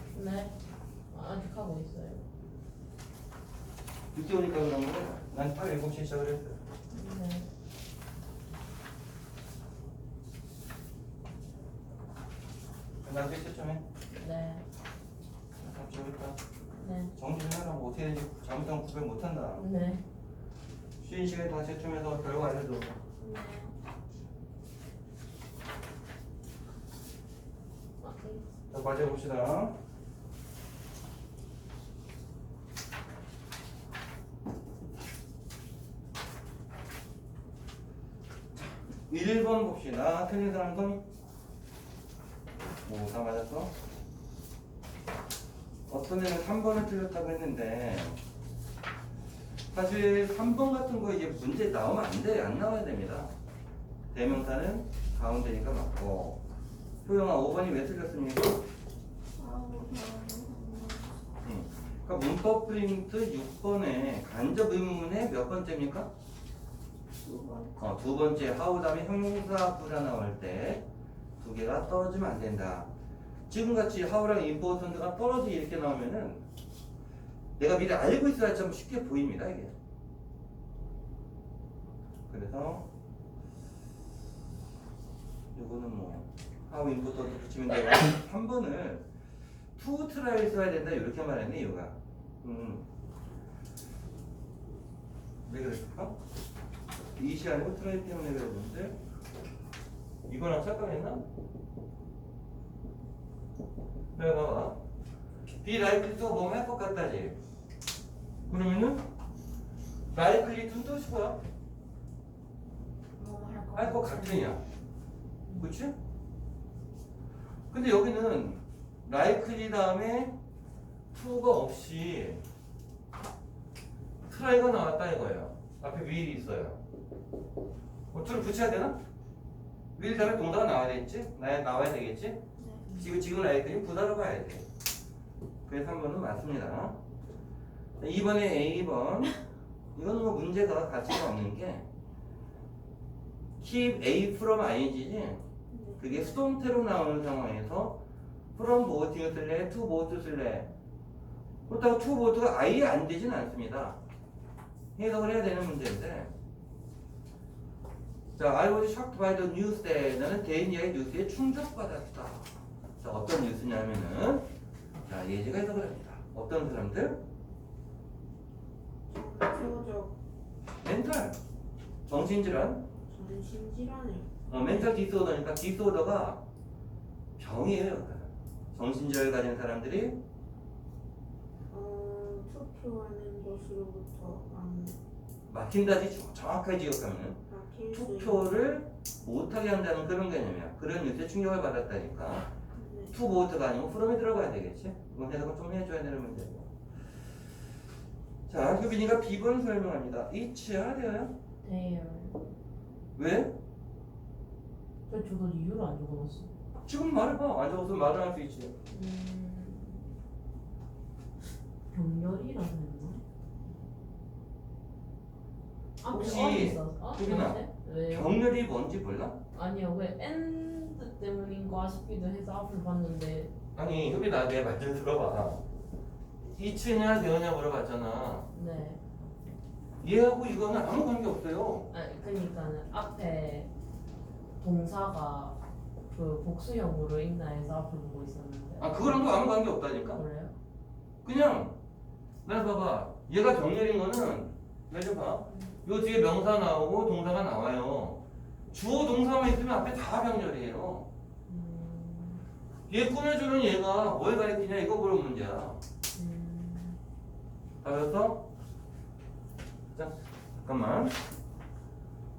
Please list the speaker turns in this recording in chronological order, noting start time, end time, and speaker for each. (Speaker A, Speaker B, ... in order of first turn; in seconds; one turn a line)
Speaker A: 0.1-0.5
Speaker A: 1.1-2.2
Speaker B: 4.1-6.6
Speaker A: 6.9-7.5
Speaker B: 13.0-13.8
Speaker A: 14.1-14.6
Speaker B: 15.6-16.4
Speaker A: 16.8-17.1
Speaker B: 17.1-19.6
Speaker A: 19.6-20.0
Speaker B: 21.0-22.9
Speaker A: 23.2-23.6
Speaker A: 28.0-28.4
Speaker B: 28.7-29.7
Speaker B: 39.1-41.0
Speaker B: 42.8-43.7
Speaker B: 45.9-48.2
Speaker B: 49.7-53.3
Speaker B: 54.1-56.4
Speaker B: 57.0-58.6
Speaker C: 59.4-61.2
Speaker B: 61.4-66.1
Speaker C: 67.2-68.0
Speaker B: 67.8-70.8
Speaker B: 71.4-72.9
Speaker B: 73.5-76.4
Speaker B: 77.6-79.7
Speaker B: 82.3-82.8
Speaker B: 85.5-89.0
Speaker B: 89.8-92.8
Speaker B: 95.5-96.2
Speaker B: 97.2-99.0
Speaker B: 100.3-101.2
Speaker B: 104.2-104.8
Speaker B: 105.5-107.4
Speaker B: 108.5-109.0
Speaker B: 110.1-111.4
Speaker C: 113.2-114.4
Speaker B: 113.8-114.6
Speaker B: 115.6-115.9
Speaker B: 117.7-120.3
Speaker B: 121.1-122.4
Speaker B: 124.3-126.8
Speaker B: 128.1-128.9
Speaker B: 129.9-132.4
Speaker C: 132.6-132.8
Speaker B: 132.9-134.6
Speaker B: 135.7-137.0
Speaker B: 138.0-139.3
Speaker B: 139.9-141.8
Speaker B: 143.6-145.4
Speaker C: 145.7-146.1
Speaker B: 146.0-148.0
Speaker B: 148.5-150.7
Speaker B: 151.7-154.0
Speaker B: 154.9-156.3
Speaker B: 158.4-162.4
Speaker B: 163.0-164.4
Speaker B: 165.1-167.2
Speaker C: 169.1-170.1
Speaker B: 170.8-171.3
Speaker B: 172.1-172.8
Speaker C: 173.1-174.2
Speaker B: 174.5-176.4
Speaker B: 177.4-180.2
Speaker C: 181.7-184.9
Speaker B: 185.5-187.4
Speaker C: 187.5-188.4
Speaker B: 187.9-192.5
Speaker C: 192.8-193.1
Speaker B: 193.1-196.7
Speaker B: 198.5-201.3
Speaker A: 201.6-202.4
Speaker B: 203.2-203.5
Speaker A: 205.1-206.5
Speaker B: 206.8-208.7
Speaker A: 208.9-210.1
Speaker A: 211.9-213.2
Speaker A: 216.0-218.3
Speaker B: 216.1-219.3
Speaker A: 219.5-223.5
Speaker B: 223.7-225.6
Speaker B: 226.5-228.4
Speaker A: 228.5-229.0
Speaker B: 230.0-231.9
Speaker A: 231.9-233.7
Speaker A: 234.6-235.6
Speaker A: 236.1-240.5
Speaker B: 238.8-240.2
Speaker B: 241.2-241.7
Speaker B: 242.4-248.2
Speaker A: 245.5-245.8
Speaker B: 248.7-251.1
Speaker A: 251.5-252.4
Speaker B: 252.9-255.8
Speaker A: 256.1-257.0
Speaker B: 257.8-258.4
Speaker B: 259.9-261.1